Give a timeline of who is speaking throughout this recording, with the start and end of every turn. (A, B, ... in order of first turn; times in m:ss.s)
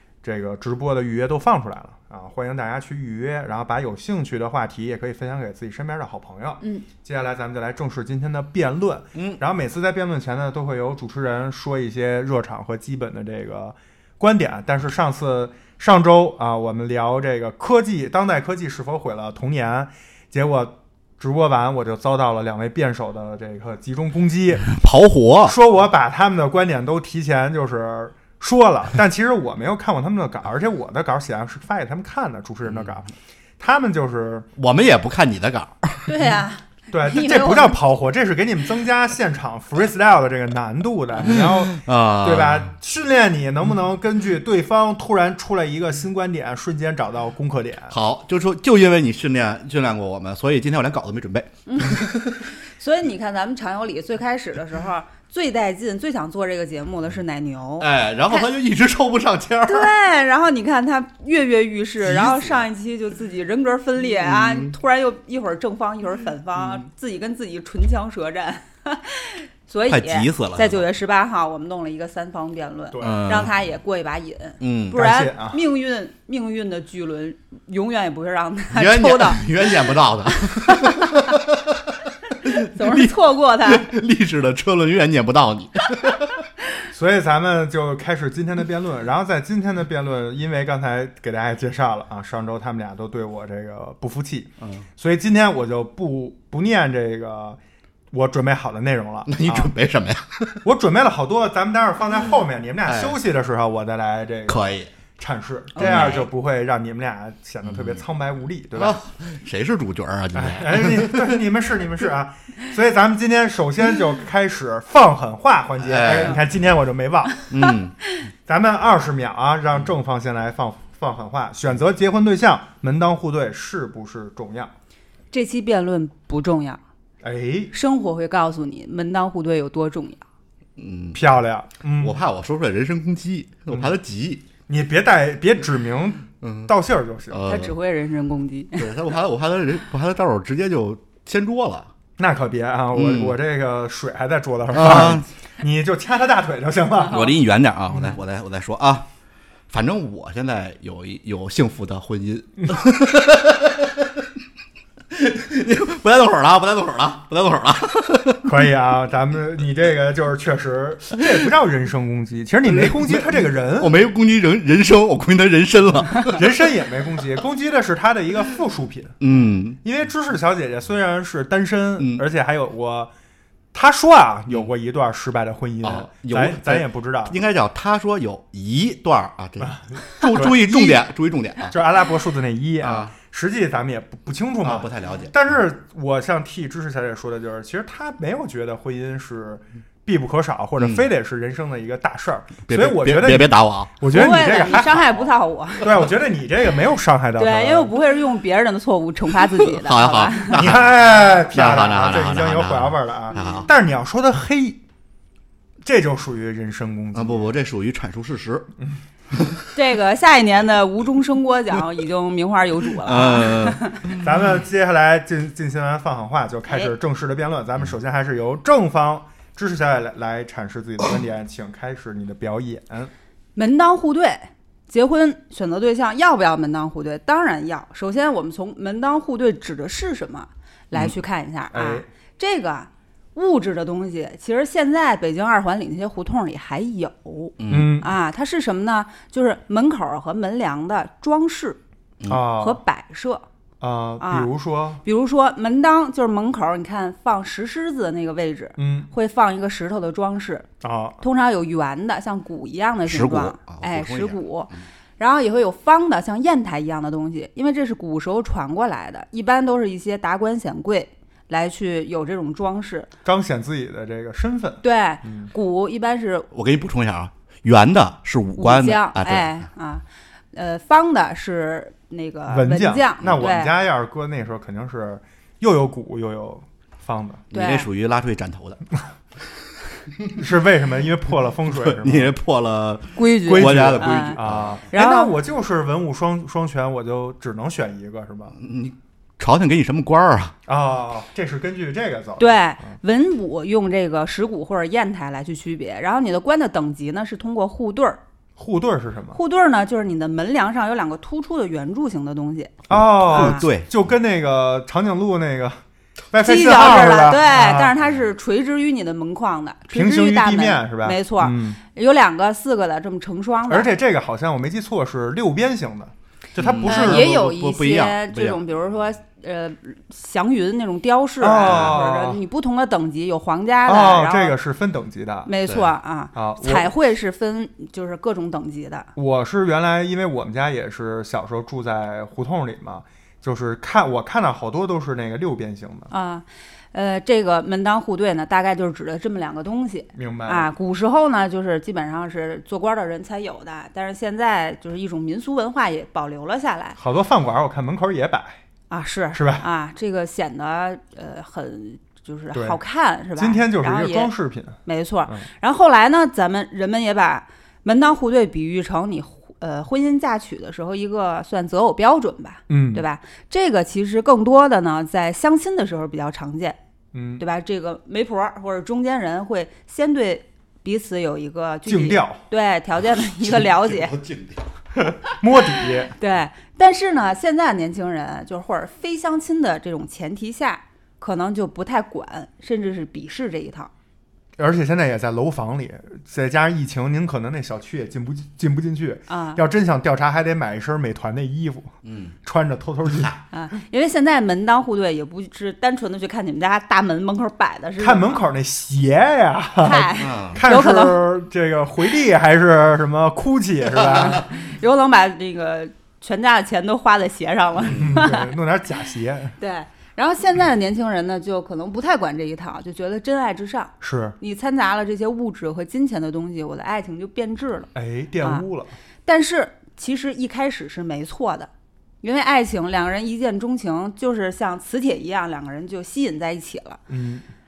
0:00.2-0:24.7 A
0:24.7-0:25.6 B
0:25.4-0:33.1 A
0:33.6-0:34.5 A
0:34.6-0:36.1 B
0:36.1-0:37.8 C
0:36.9-0:47.9 A
0:41.3-0:42.7 B
0:47.9-0:52.2 B
0:51.7-0:52.2 C
0:52.8-0:58.5 C
0:57.8-0:59.9 B
0:59.7-1:19.9 C
1:02.0-1:02.6 B
1:04.2-1:04.7 B
1:09.9-1:10.8 B
1:12.9-1:13.4 A
1:13.0-1:13.5 B
1:14.6-1:15.0 B
1:14.9-1:15.6 A
1:18.7-1:21.8 B
1:20.5-1:21.2 C
1:22.4-1:23.9 C
1:22.4-1:26.4 B
1:26.9-1:37.6 A
1:34.6-1:34.8 B
1:38.1-1:39.7 A
1:39.3-1:40.6 B
1:40.6-1:44.6 A
1:42.9-1:43.2 B
1:44.5-1:44.9 B
1:45.2-1:49.0 A
1:45.8-1:46.3 C
1:45.8-1:46.2 B
1:47.7-1:48.0 B
1:48.8-1:51.4 B
1:50.3-1:57.5 A
1:55.8-1:56.4 B
1:57.5-1:58.0 B
1:58.5-2:04.7 A
2:05.3-2:06.8 C
2:07.2-2:07.7 A
2:07.7-2:10.2 C
2:10.8-2:11.2 B
2:11.1-2:12.2 A
2:12.0-2:14.4 B
2:13.7-2:14.0 A
2:14.7-2:17.4 A
2:16.4-2:16.7 B
2:17.3-2:17.8 B
2:17.4-2:18.9 C
2:18.8-2:21.9 B
2:22.2-2:27.2 A
2:22.9-2:23.4 B
2:24.7-2:25.2 B
2:27.1-2:29.1 B
2:29.7-2:34.2 B
2:35.1-2:38.5 B
2:38.4-2:44.0 A
2:42.7-2:46.4 B
2:46.3-2:49.2 A
2:49.2-2:49.8 B
2:49.8-2:53.1 A
2:53.7-2:57.4 A
2:55.8-3:01.7 B
2:59.6-3:01.0 A
3:01.7-3:15.1 A
3:02.8-3:03.1 B
3:04.6-3:05.3 B
3:10.8-3:11.0 B
3:12.7-3:14.0 B
3:14.1-3:15.9 C
3:15.8-3:17.9 A
3:17.4-3:20.6 C
3:19.7-3:20.9 B
3:20.6-3:24.8 A
3:21.5-3:23.7 B
3:23.3-3:23.7 C
3:25.8-3:27.5 A
3:27.1-3:28.7 B
3:29.7-3:34.0 C
3:33.0-3:34.1 B
3:34.2-3:43.1 A
3:43.6-4:01.8 C
3:51.7-3:52.1 A
3:57.6-3:58.0 B
3:57.7-3:58.1 A
4:02.3-4:02.8 A
4:02.5-4:03.4 C
4:03.8-4:05.0 A
4:04.2-4:04.5 C
4:05.0-4:10.7 C
4:08.8-4:09.1 A
4:10.8-4:11.2 A
4:11.2-4:23.1 C
4:13.1-4:14.4 B
4:23.2-4:25.5 A
4:24.8-4:26.5 C
4:26.5-4:29.6 B
4:28.6-4:33.7 C
4:32.5-4:37.4 A
4:37.5-4:38.8 B
4:37.5-4:37.9 C
4:40.3-4:42.3 A
4:41.7-4:44.8 B
4:43.1-4:44.4 C
4:43.5-4:48.5 A
4:44.9-4:45.3 C
4:48.6-4:50.5 B
4:50.7-4:53.0 A
4:52.4-4:58.2 C
4:58.6-4:59.4 A
4:59.3-5:03.6 C
5:02.9-5:03.9 B
5:02.9-5:08.0 A
5:06.4-5:13.9 C
5:09.9-5:11.8 A
5:13.7-5:17.3 A
5:16.6-5:18.6 B
5:16.8-5:24.5 C
5:21.4-5:22.4 A
5:21.6-5:22.0 B
5:23.9-5:25.5 A
5:25.4-5:29.1 C
5:26.3-5:26.9 A
5:29.1-5:36.1 A
5:36.1-5:47.0 C
5:40.1-5:40.7 A
5:47.0-5:48.6 A
5:48.9-5:54.3 C
5:49.3-5:49.6 A
5:52.5-5:52.8 A
5:53.4-5:55.5 A
5:54.8-6:06.8 C
6:02.7-6:03.0 A
6:07.1-6:07.4 A
6:07.4-6:14.2 C
6:11.9-6:12.4 A
6:13.4-6:14.6 B
6:15.0-6:16.1 A
6:15.6-6:23.9 C
6:24.6-6:31.9 A
6:29.3-6:29.6 C
6:32.0-6:32.3 B
6:32.4-6:33.4 A
6:33.5-6:38.4 C
6:38.0-6:44.5 A
6:39.8-6:41.2 C
6:39.9-6:40.6 B
6:44.0-6:48.5 C
6:47.9-6:49.5 A
6:49.6-6:57.9 C
6:54.0-6:54.4 A
6:57.9-6:59.0 A
6:59.2-7:01.7 C
7:02.2-7:07.0 C
7:07.1-7:07.5 A